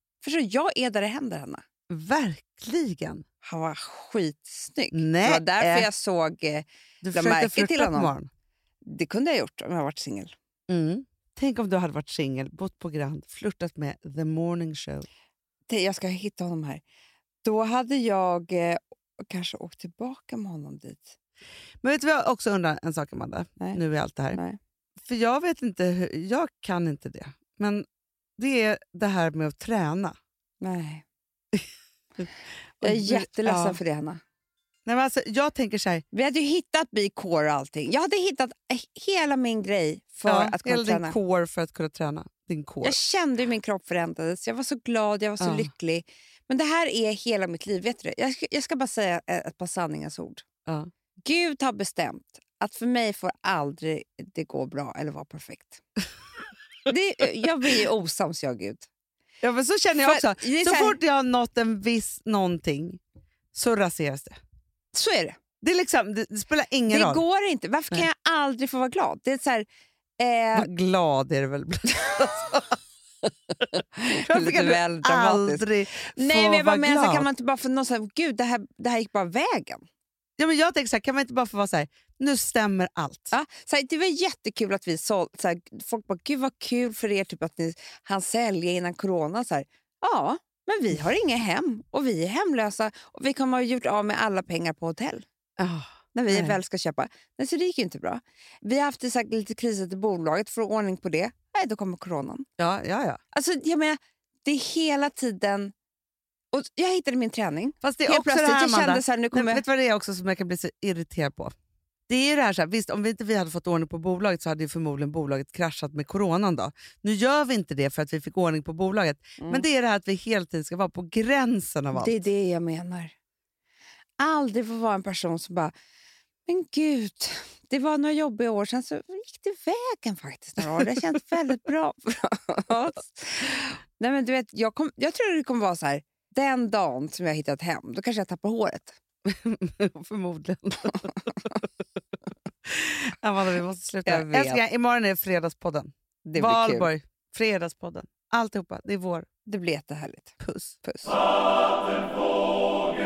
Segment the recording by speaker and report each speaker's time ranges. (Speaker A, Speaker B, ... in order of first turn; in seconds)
Speaker A: 0.2-1.6, 3.4-8.2, 8.8-10.3, 15.7-16.8, 17.4-21.1, 24.3-24.6, 30.6-31.0, 32.8-34.2, 36.1-41.1, 42.8-50.5, 51.2-55.8, 56.9-58.9, 60.0-61.0, 64.9-65.4, 66.9-69.7, 70.2-70.7, 74.0-79.8, 83.3-95.2, 96.1-102.5, 103.3-105.7, 106.5-109.6, 119.4-119.7, 121.9-123.1, 124.2-125.7, 126.5-139.0, 144.1-144.6, 146.2-146.9, 149.5-151.2
Speaker B: 1.9-3.2, 4.9-5.9, 7.0-8.3, 10.7-15.1, 21.8-24.4, 25.0-27.9, 28.4-30.2, 32.8-33.8, 34.9-36.0, 40.3-43.0, 45.4-45.7, 59.4-63.0, 63.5-64.4, 65.6-67.2, 70.5-72.8, 73.6-77.3, 80.4-83.3, 95.6-96.6, 102.6-103.2, 107.8-111.5, 112.1-122.2, 139.3-141.5, 142.7-149.3, 150.4-150.8